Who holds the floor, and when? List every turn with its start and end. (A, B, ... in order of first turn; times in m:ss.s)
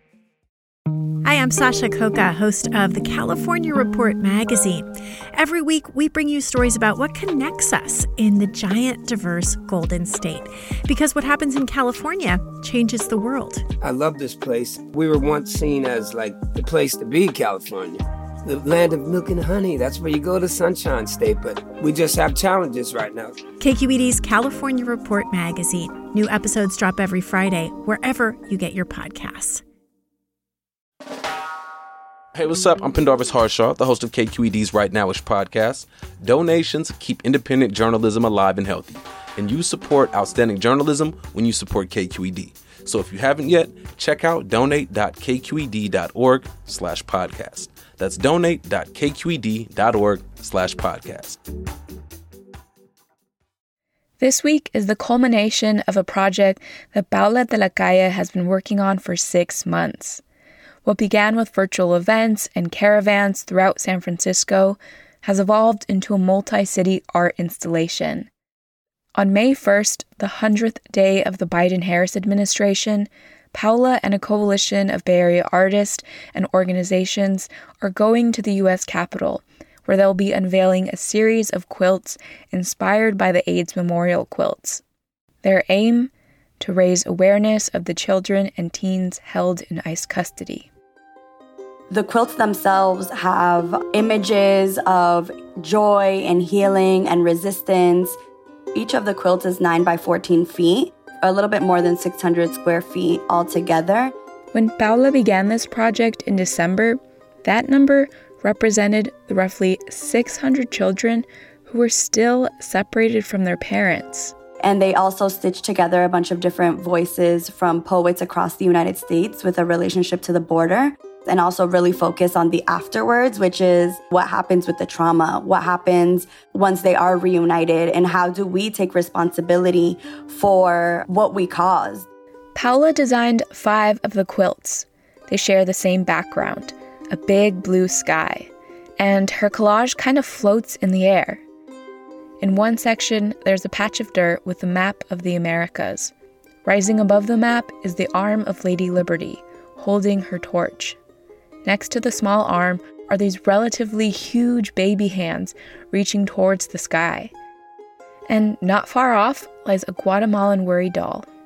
0:01.2-0:13.6 A
0:13.8-0:23.4 B
0:23.6-0:29.6 A
0:32.4-0:51.4 C
0:54.2-1:00.2 D
1:00.8-1:08.3 D
1:09.2-1:24.8 D
1:25.4-1:30.7 D
1:31.9-1:38.2 E
1:38.7-1:44.1 E
1:44.5-1:54.3 D
1:54.6-2:12.1 E
2:12.6-2:21.4 D
2:22.4-2:26.1 D
2:26.6-2:31.0 D
2:31.6-2:37.3 D
2:38.3-2:41.3 D